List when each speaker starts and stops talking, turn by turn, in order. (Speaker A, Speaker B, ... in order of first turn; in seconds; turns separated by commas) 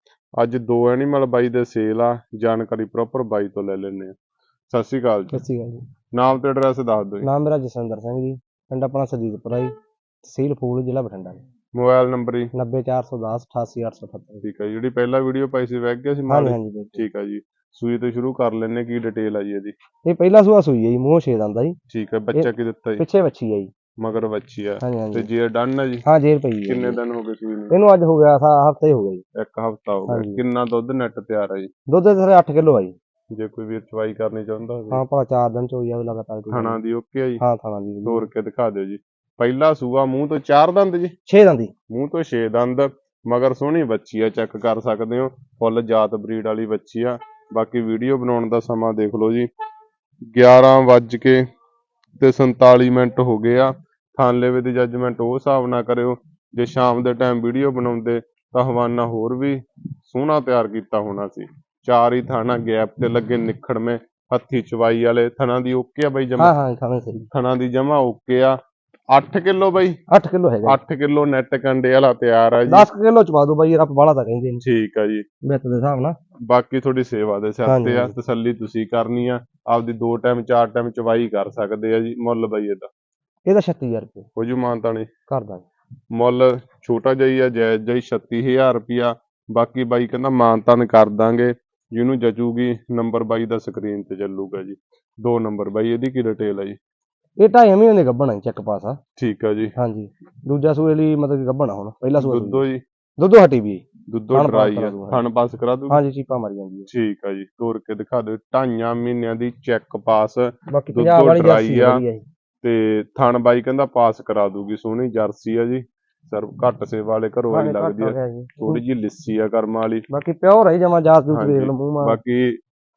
Speaker A: 0.4-4.1, Speaker A: 4.7-5.4, Speaker B: 5.3-5.8, Speaker A: 6.1-7.3, Speaker B: 7.2-9.7, Speaker B: 10.2-11.4, Speaker A: 11.8-12.5, Speaker B: 12.5-14.4, Speaker A: 14.4-19.7, Speaker B: 16.3-17.0, Speaker B: 20.1-21.8, Speaker A: 21.9-23.0, Speaker B: 22.3-23.7, Speaker A: 24.0-26.1, Speaker B: 24.8-25.3, Speaker B: 26.1-27.0, Speaker A: 26.7-27.8, Speaker B: 27.7-29.2, Speaker A: 29.4-31.7, Speaker B: 30.1-30.4, Speaker B: 31.9-33.0, Speaker A: 33.3-35.0, Speaker B: 34.9-36.8, Speaker A: 36.5-37.4, Speaker B: 37.4-38.3, Speaker A: 38.0-41.1, Speaker B: 41.3-41.7, Speaker A: 41.9-49.5, Speaker A: 50.2-51.4, Speaker A: 52.2-66.5, Speaker B: 66.4-67.3, Speaker A: 67.3-68.6, Speaker A: 69.1-70.0, Speaker B: 70.1-70.8, Speaker A: 70.7-72.9, Speaker B: 72.7-74.6, Speaker A: 74.6-75.2, Speaker B: 75.4-76.2, Speaker A: 76.5-82.9, Speaker B: 77.7-78.1, Speaker B: 83.5-84.3, Speaker A: 84.4-85.1, Speaker B: 85.3-85.7, Speaker A: 86.1-96.8, Speaker B: 97.4-99.0, Speaker A: 99.2-99.7, Speaker B: 99.8-102.6, Speaker A: 102.2-102.8, Speaker B: 103.2-105.2, Speaker A: 104.1-106.0, Speaker B: 105.9-106.9, Speaker A: 106.9-112.0, Speaker B: 110.7-112.2, Speaker A: 112.6-120.1, Speaker B: 117.5-118.8, Speaker B: 120.1-122.2, Speaker A: 121.3-122.6